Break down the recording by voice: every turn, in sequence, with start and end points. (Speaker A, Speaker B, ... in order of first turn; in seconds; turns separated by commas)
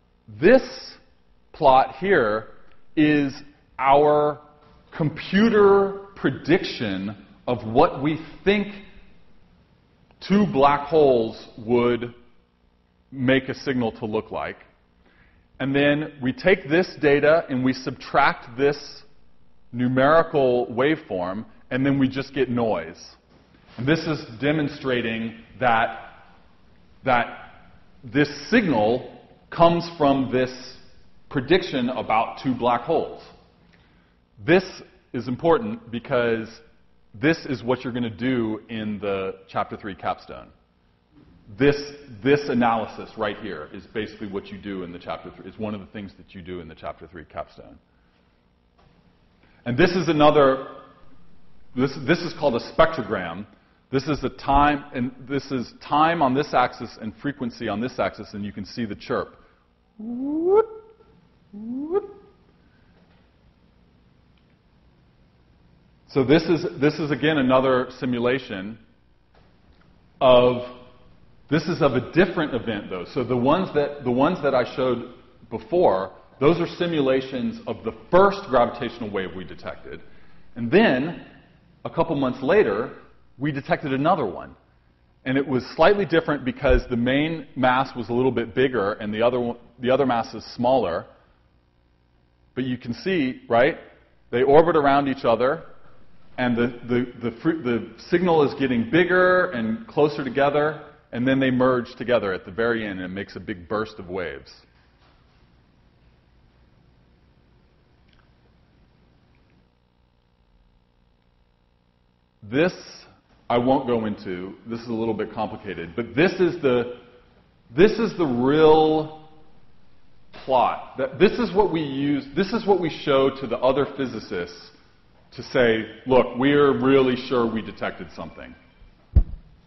Speaker A: 0.3-1.0, Speaker A: 1.5-8.8, Speaker A: 10.2-12.2, Speaker A: 13.1-14.7, Speaker A: 15.6-19.1, Speaker A: 19.7-23.2, Speaker A: 23.8-26.2, Speaker A: 27.0-33.3, Speaker A: 34.4-40.5, Speaker A: 41.5-47.8, Speaker A: 49.6-50.8, Speaker A: 51.7-59.4, Speaker A: 60.0-60.7, Speaker A: 61.5-62.0, Speaker A: 66.1-68.8, Speaker A: 70.2-70.8, Speaker A: 71.5-80.0, Speaker A: 80.5-81.3, Speaker A: 81.8-84.5, Speaker A: 85.2-91.1, Speaker A: 92.5-95.7, Speaker A: 96.4-104.6, Speaker A: 112.4-117.0, Speaker A: 117.7-119.3, Speaker A: 120.3-124.7, Speaker A: 125.3-128.6